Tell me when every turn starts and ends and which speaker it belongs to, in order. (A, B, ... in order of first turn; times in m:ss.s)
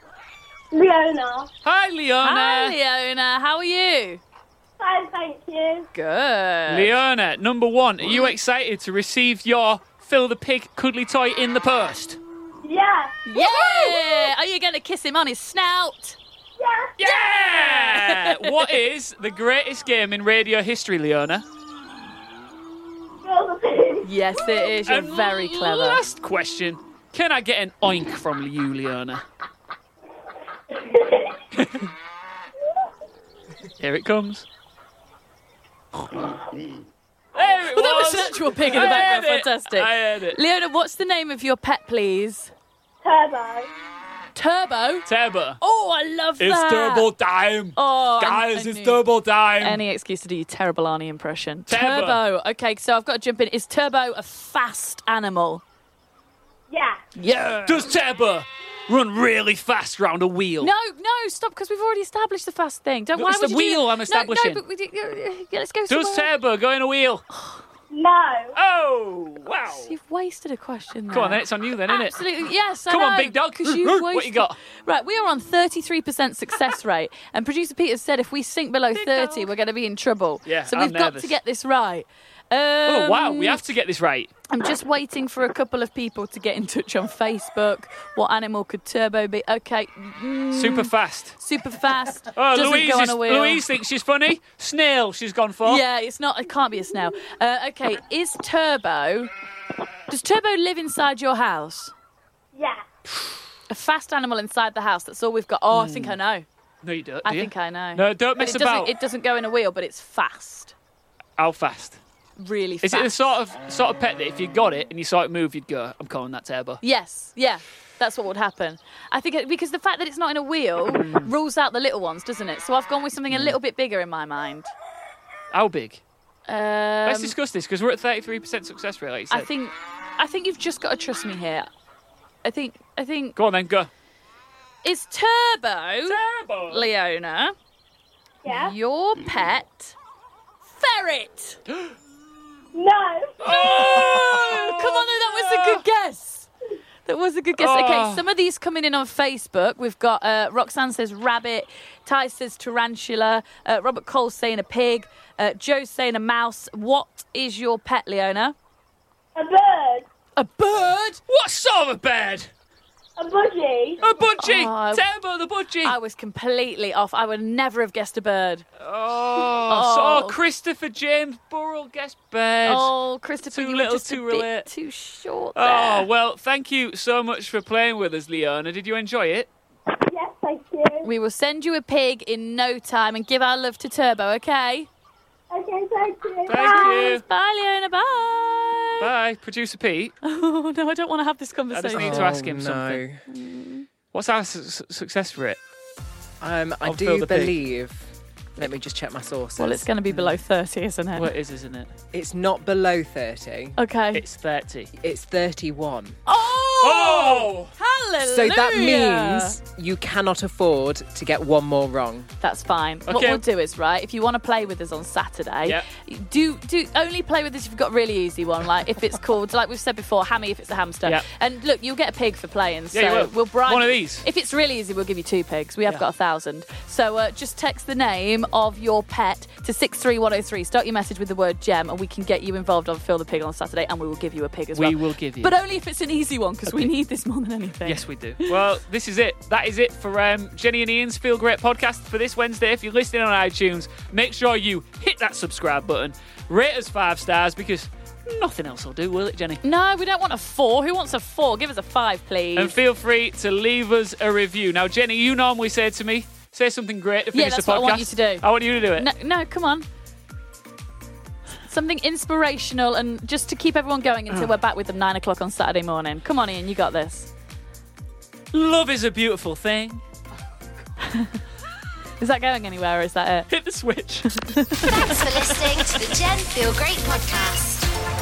0:00.7-0:01.5 A
0:01.6-0:02.8 B
0:02.2-0:04.2 C
0:04.8-0:05.9 A
0:05.9-0:06.9 C
0:06.7-0:12.2 B
0:12.6-0:13.2 A
0:13.3-0:16.2 C
0:16.6-0:17.1 A
0:17.0-0:21.4 B
0:17.4-0:18.6 C
0:23.2-0:24.1 A
0:24.0-0:26.0 C
0:24.8-0:29.2 B
0:30.7-0:31.4 A
0:31.6-0:31.9 B
0:33.8-0:34.4 B
0:37.3-0:40.4 B
0:37.7-0:42.5 C
0:43.0-0:43.7 A
0:44.4-0:45.1 C
0:45.1-0:45.6 B
0:45.6-0:47.1 C
0:46.4-0:49.8 B
0:47.8-0:49.0 C
0:49.6-0:55.6 C
0:51.7-0:52.2 B
0:56.7-0:57.0 A
0:57.2-0:57.9 C
0:57.3-1:00.7 B
1:00.6-1:06.3 C
1:03.2-1:04.6 B
1:05.9-1:07.2 B
1:07.3-1:07.6 C
1:07.9-1:08.5 A
1:08.5-1:09.9 B
1:09.8-1:23.6 C
1:11.1-1:12.2 B
1:12.9-1:14.6 B
1:18.9-1:19.5 B
1:20.4-1:21.4 B
1:22.8-1:24.3 B
1:24.5-1:33.6 C
1:30.5-1:31.4 B
1:32.3-1:35.8 B
1:35.6-1:39.3 C
1:40.1-1:41.9 C
1:42.5-1:42.8 A
1:43.7-1:46.4 C
1:45.7-1:46.2 B
1:46.8-1:48.9 B
1:47.2-1:50.7 C
1:51.4-1:52.0 B
1:52.4-1:53.4 C
1:52.8-1:56.8 B
1:56.8-2:04.7 C
2:00.9-2:01.3 B
2:05.5-2:06.0 B
2:06.5-2:07.3 C
2:07.0-2:09.5 B
2:09.3-2:11.7 C
2:12.4-2:13.3 C
2:13.4-2:13.9 B
2:14.8-2:16.2 C
2:16.0-2:16.9 B
2:16.7-2:17.5 C
2:18.4-2:18.7 A
2:18.5-2:19.9 C
2:20.7-2:21.6 C
2:22.7-2:23.7 A
2:23.4-2:25.8 B
2:23.5-2:26.5 C
2:27.0-2:38.5 C
2:27.6-2:28.2 B
2:39.4-2:40.0 A
2:40.4-2:41.2 C
2:41.3-2:42.5 B
2:43.2-2:44.0 A
2:44.0-2:46.0 B
2:44.4-2:45.0 C
2:45.8-2:48.6 C
2:48.8-2:52.9 B
2:49.6-2:50.4 C
2:52.6-2:56.1 C
2:53.5-2:54.7 B
2:55.5-2:59.5 B
3:00.1-3:01.1 A
3:01.0-3:04.9 C
3:05.5-3:07.0 A
3:06.5-3:07.2 B
3:06.6-3:09.1 C
3:09.0-3:10.1 B
3:10.2-3:12.4 C
3:11.7-3:13.0 B
3:11.9-3:13.2 D
3:13.3-3:13.9 C
3:14.1-3:15.6 B
3:16.4-3:19.9 D
3:16.8-3:17.6 B
3:19.6-3:21.3 C
3:21.1-3:21.9 B
3:22.1-3:23.8 D
3:23.8-3:24.2 C
3:24.1-3:24.9 B
3:25.0-3:26.2 D
3:26.2-3:29.6 C
3:26.8-3:27.7 B
3:28.2-3:32.3 D
3:32.4-3:58.5 C
3:33.1-3:33.4 B
3:42.9-3:44.2 B
3:54.7-3:55.5 B
3:56.7-3:56.9 B
3:57.8-4:09.6 B
4:09.6-4:12.7 C
4:12.6-4:19.1 B
4:17.3-4:19.8 C
4:21.6-4:27.3 C
4:28.5-4:30.0 B
4:31.0-4:31.4 C
4:32.2-4:33.5 C
4:33.5-4:35.8 B
4:34.3-4:35.2 C
4:34.9-4:37.9 E